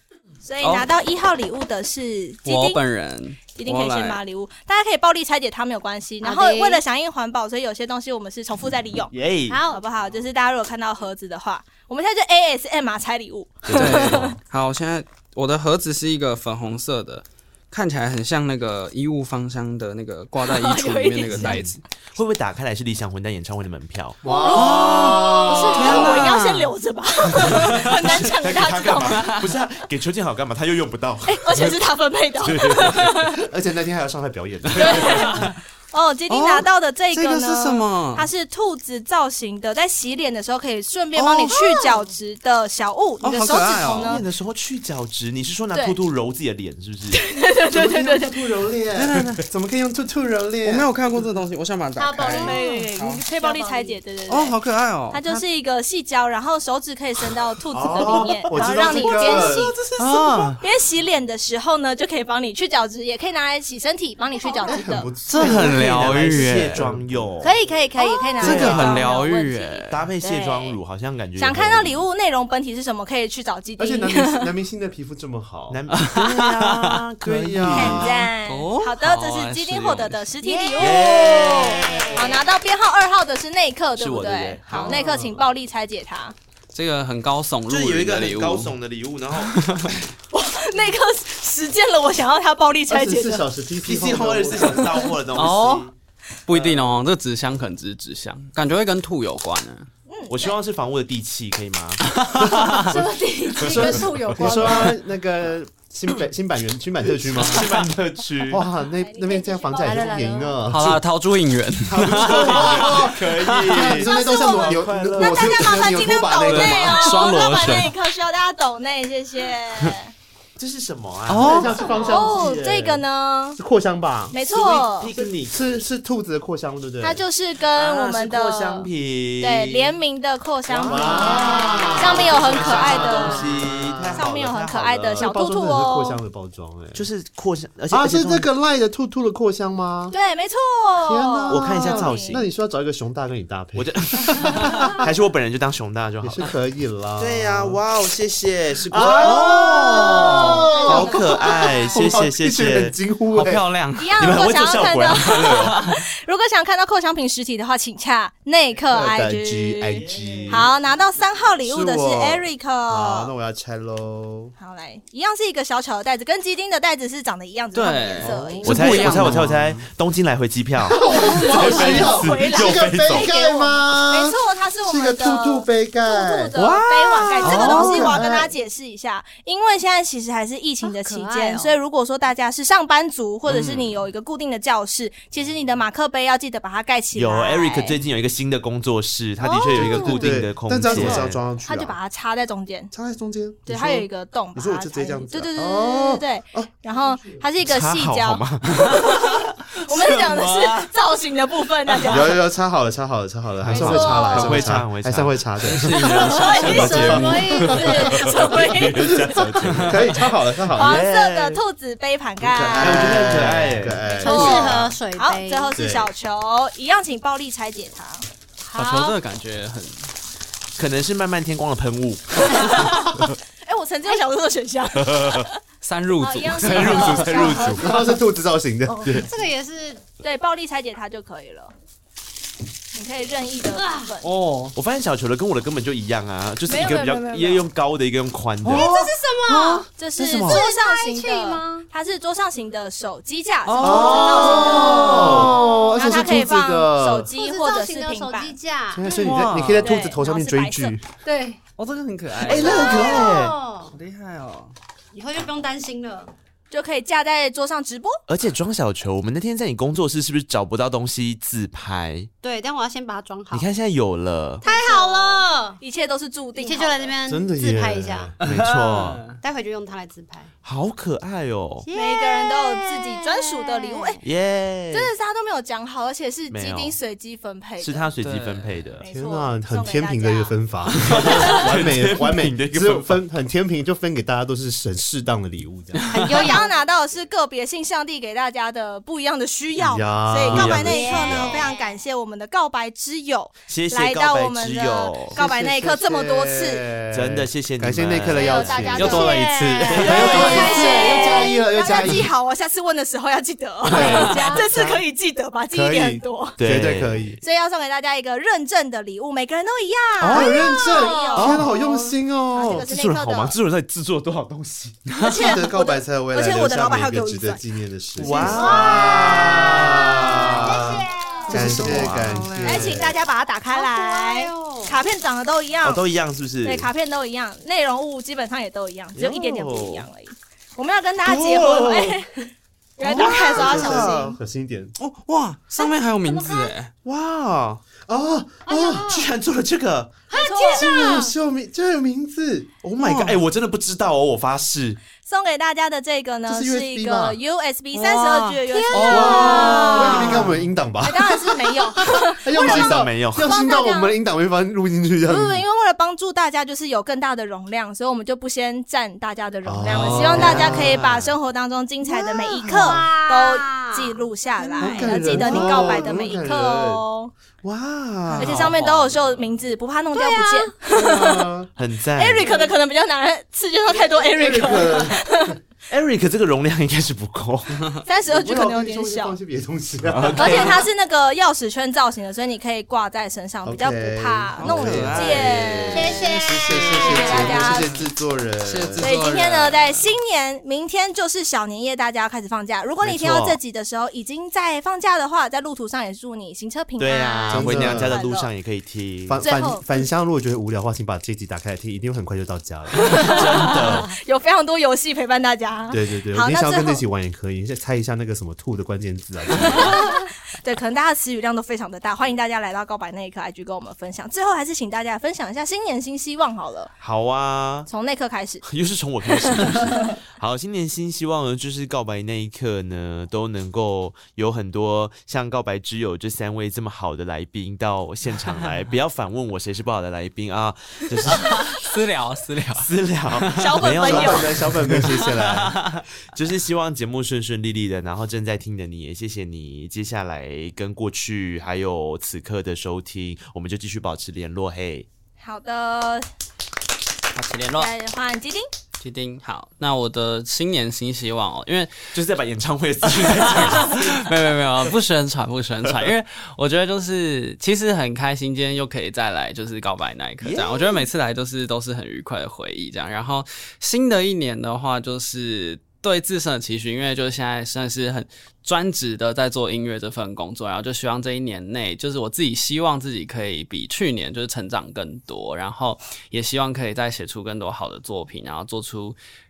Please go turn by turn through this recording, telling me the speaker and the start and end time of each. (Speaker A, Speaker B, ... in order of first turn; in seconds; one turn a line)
Speaker A: 0.4-2.8
Speaker B: 0.6-0.9
Speaker B: 2.5-4.2
Speaker A: 3.6-9.1
Speaker C: 6.2-6.8
Speaker D: 9.1-9.6
Speaker C: 9.5-9.8
Speaker A: 9.7-14.4
Speaker D: 13.7-14.4
Speaker B: 13.7-21.8
Speaker A: 20.4-21.6
Speaker D: 21.3-24.2
Speaker E: 24.2-26.2
Speaker A: 24.2-29.4
Speaker B: 24.5-26.7
Speaker D: 27.4-31.8
Speaker B: 27.4-28.3
Speaker A: 31.2-33.4
Speaker D: 32.4-33.2
Speaker E: 33.2-35.4
Speaker A: 34.8-44.2
Speaker B: 34.9-35.6
Speaker B: 36.3-38.3
Speaker B: 41.2-41.4
Speaker B: 43.2-44.2
Speaker D: 43.5-47.2
Speaker A: 47.1-48.4
Speaker E: 47.7-51.2
Speaker B: 49.0-49.4
Speaker B: 50.6-53.2
Speaker C: 52.0-54.0
Speaker A: 52.2-54.6
Speaker B: 54.3-55.4
Speaker A: 55.1-59.8
Speaker E: 57.7-60.5
Speaker C: 58.9-59.5
Speaker B: 59.9-60.6
Speaker A: 60.6-65.1
Speaker C: 64.4-64.7
Speaker E: 64.6-67.3
Speaker B: 65.3-66.9
Speaker D: 65.4-67.6
Speaker A: 67.4-70.8
Speaker D: 68.4-69.0
Speaker B: 68.4-69.9
Speaker D: 69.9-72.0
Speaker A: 71.4-74.5
Speaker E: 73.8-75.8
Speaker D: 75.7-78.2
Speaker B: 76.0-77.7
Speaker E: 77.2-78.3
Speaker A: 77.7-86.3
Speaker B: 78.5-80.3
Speaker C: 80.4-81.0
Speaker D: 80.8-82.5
Speaker D: 84.0-85.0
Speaker E: 84.7-85.4
Speaker B: 86.7-88.7
Speaker D: 87.7-90.1
Speaker B: 89.4-89.8
Speaker A: 90.3-93.5
Speaker E: 92.9-94.9
Speaker D: 93.8-95.9
Speaker B: 95.3-95.9
Speaker B: 96.5-99.9
Speaker A: 100.1-100.5
Speaker D: 100.3-102.2
Speaker B: 102.0-103.0
Speaker C: 102.9-104.9
Speaker E: 103.6-107.7
Speaker D: 103.7-104.0
Speaker B: 104.5-105.0
Speaker D: 107.3-108.7
Speaker B: 107.4-107.9
Speaker E: 108.5-111.0
Speaker A: 108.9-110.1
Speaker C: 109.8-110.6
Speaker B: 110.7-113.9
Speaker E: 111.8-117.3
Speaker D: 112.0-116.3
Speaker A: 114.0-120.1
Speaker B: 116.5-117.9
Speaker D: 120.6-122.3
Speaker B: 121.3-121.7
Speaker E: 121.4-123.0
Speaker A: 121.8-123.6
Speaker E: 123.6-124.3
Speaker A: 124.3-125.1
Speaker D: 124.4-125.6
Speaker E: 125.2-127.2
Speaker A: 127.0-136.2
Speaker D: 127.7-129.9
Speaker D: 130.7-135.2
Speaker E: 130.9-134.3
Speaker E: 135.2-137.1
Speaker D: 136.9-138.5
Speaker E: 137.9-140.1
Speaker A: 140.1-142.4
Speaker E: 141.1-145.1
Speaker D: 141.5-142.5
Speaker D: 143.8-146.5
Speaker E: 146.2-147.8
Speaker D: 147.2-152.9
Speaker E: 148.9-151.2
Speaker B: 149.2-150.6
Speaker A: 150.1-152.0
Speaker E: 151.9-153.6
Speaker B: 153.3-154.2
Speaker A: 154.0-163.3
Speaker D: 154.2-155.9
Speaker B: 155.4-156.0
Speaker E: 158.9-160.7
Speaker D: 160.0-160.7
Speaker E: 161.7-164.5
Speaker A: 164.6-169.2
Speaker B: 167.7-169.9
Speaker C: 168.3-168.7
Speaker D: 168.7-173.3
Speaker E: 168.9-169.5
Speaker E: 170.9-176.5
Speaker A: 171.0-188.0
Speaker D: 176.6-178.2
Speaker B: 177.4-178.2
Speaker E: 177.4-178.5
Speaker C: 180.8-181.8
Speaker D: 183.4-184.1
Speaker D: 187.1-191.4
Speaker C: 189.4-190.3
Speaker E: 189.7-192.0
Speaker A: 190.9-192.9
Speaker E: 192.9-197.4
Speaker A: 193.7-202.4
Speaker D: 197.6-199.3
Speaker B: 200.0-200.9
Speaker E: 202.1-211.1
Speaker D: 203.6-211.6
Speaker A: 203.7-204.7
Speaker B: 205.6-207.8
Speaker A: 206.2-206.9
Speaker C: 206.3-208.3
Speaker A: 207.7-209.8
Speaker A: 210.8-213.5
Speaker E: 212.4-214.9
Speaker D: 212.7-214.9
Speaker A: 214.1-218.2
Speaker C: 214.2-215.8
Speaker E: 215.8-216.1
Speaker C: 218.7-219.2
Speaker B: 218.8-220.1
Speaker D: 220.8-223.3
Speaker A: 222.5-225.6
Speaker D: 225.0-225.5
Speaker B: 225.8-227.7
Speaker A: 226.2-227.9
Speaker D: 226.6-228.0
Speaker E: 227.8-229.3
Speaker C: 229.1-230.0
Speaker A: 230.2-231.7
Speaker A: 232.9-234.3
Speaker C: 233.8-234.1
Speaker B: 234.2-234.8
Speaker D: 234.8-238.9
Speaker A: 236.7-237.7
Speaker C: 236.7-237.4
Speaker B: 238.6-238.9
Speaker E: 238.7-239.1
Speaker C: 238.7-239.9
Speaker B: 239.5-239.8
Speaker A: 240.0-248.5
Speaker D: 240.2-240.6
Speaker C: 240.4-241.9
Speaker B: 243.7-244.2
Speaker E: 243.8-247.3
Speaker D: 243.8-245.6
Speaker C: 244.1-246.1
Speaker C: 247.4-249.2
Speaker E: 248.9-251.0
Speaker B: 249.2-249.9
Speaker A: 249.8-251.0
Speaker C: 251.2-251.6
Speaker B: 251.8-253.2
Speaker D: 252.4-253.6
Speaker C: 252.6-253.9
Speaker A: 252.7-253.3
Speaker B: 253.9-254.7
Speaker C: 255.1-256.3
Speaker A: 256.7-258.2
Speaker D: 258.3-262.3
Speaker C: 262.4-263.7
Speaker D: 263.5-264.6
Speaker C: 264.6-265.8
Speaker A: 264.6-267.1
Speaker C: 266.6-268.4
Speaker E: 267.3-268.7
Speaker B: 268.4-269.4
Speaker D: 268.4-269.2
Speaker C: 269.4-270.5
Speaker D: 270.6-271.9
Speaker C: 271.9-274.2
Speaker A: 271.9-274.2
Speaker D: 274.2-275.1
Speaker A: 274.9-278.1
Speaker D: 276.5-277.0
Speaker D: 277.8-279.1
Speaker B: 278.2-279.0
Speaker A: 279.0-280.5
Speaker E: 279.1-286.4
Speaker D: 281.1-283.2
Speaker A: 281.3-281.6
Speaker B: 286.0-286.5
Speaker C: 286.1-286.7
Speaker A: 286.3-296.9
Speaker E: 289.8-291.5
Speaker D: 290.5-291.6
Speaker C: 290.7-291.9
Speaker D: 293.7-295.4
Speaker E: 295.3-299.4
Speaker D: 297.1-301.4
Speaker A: 298.4-306.6
Speaker C: 298.4-300.8
Speaker B: 299.0-300.4
Speaker E: 300.0-302.3
Speaker E: 303.8-305.0
Speaker B: 303.9-304.6
Speaker C: 303.9-304.7
Speaker E: 305.7-307.4
Speaker D: 306.6-307.3
Speaker A: 307.4-311.7
Speaker E: 310.2-312.9
Speaker C: 310.4-312.1
Speaker A: 312.5-313.6
Speaker D: 312.7-315.2
Speaker B: 315.1-315.4
Speaker A: 315.2-317.6
Speaker E: 315.2-323.2
Speaker D: 318.2-322.6
Speaker A: 318.2-319.1
Speaker C: 318.4-319.6
Speaker C: 320.6-322.1
Speaker B: 321.5-323.0
Speaker A: 322.6-326.0
Speaker C: 323.7-325.0
Speaker D: 325.8-326.9
Speaker A: 326.6-334.4
Speaker D: 329.1-330.1
Speaker D: 331.2-332.2
Speaker D: 333.0-334.2
Speaker E: 333.2-334.9
Speaker B: 335.0-336.9
Speaker C: 335.8-336.7
Speaker D: 337.1-337.8
Speaker E: 338.0-339.1
Speaker C: 338.7-339.3
Speaker D: 338.9-340.2
Speaker C: 340.3-341.4
Speaker A: 340.3-341.2
Speaker E: 340.7-342.8
Speaker D: 342.8-345.0
Speaker B: 343.0-343.4
Speaker A: 345.2-350.3
Speaker E: 346.5-347.4
Speaker B: 347.9-350.7
Speaker C: 348.7-350.4
Speaker E: 349.1-355.6
Speaker A: 351.0-354.2
Speaker D: 352.6-353.5
Speaker A: 355.3-367.3
Speaker E: 359.6-361.1
Speaker B: 360.0-360.4
Speaker D: 360.0-361.3
Speaker C: 362.0-365.4
Speaker E: 362.7-363.1
Speaker E: 364.8-367.0
Speaker D: 365.3-366.1
Speaker D: 367.6-369.4
Speaker E: 368.2-368.7
Speaker A: 368.4-371.5
Speaker C: 370.2-370.7
Speaker E: 370.9-371.7
Speaker D: 371.8-372.7
Speaker A: 372.2-375.6
Speaker E: 374.1-375.6
Speaker D: 375.9-378.0
Speaker A: 378.1-379.4
Speaker E: 378.3-380.8
Speaker D: 380.1-380.9
Speaker A: 380.4-386.2
Speaker E: 383.6-389.1
Speaker B: 384.6-388.1
Speaker C: 385.9-387.3
Speaker A: 387.0-388.0
Speaker B: 388.6-390.1
Speaker A: 389.0-398.5
Speaker D: 393.0-393.6
Speaker D: 397.0-399.4
Speaker E: 397.5-398.2
Speaker E: 399.3-403.3
Speaker A: 399.4-399.8
Speaker A: 402.9-407.0
Speaker D: 403.2-404.1
Speaker E: 405.9-410.1
Speaker A: 409.6-416.9
Speaker D: 417.0-417.9
Speaker A: 417.9-418.6
Speaker D: 418.6-431.8
Speaker A: 419.3-420.1
Speaker B: 428.3-428.7
Speaker B: 431.2-433.9
Speaker D: 432.8-435.1
Speaker A: 433.5-434.5
Speaker E: 434.0-435.8
Speaker B: 434.4-436.0
Speaker D: 436.3-445.1
Speaker A: 445.4-446.3
Speaker B: 447.3-447.9
Speaker A: 447.7-448.7
Speaker B: 449.0-452.0
Speaker D: 452.1-454.4
Speaker B: 453.0-479.2
Speaker D: 460.4-461.1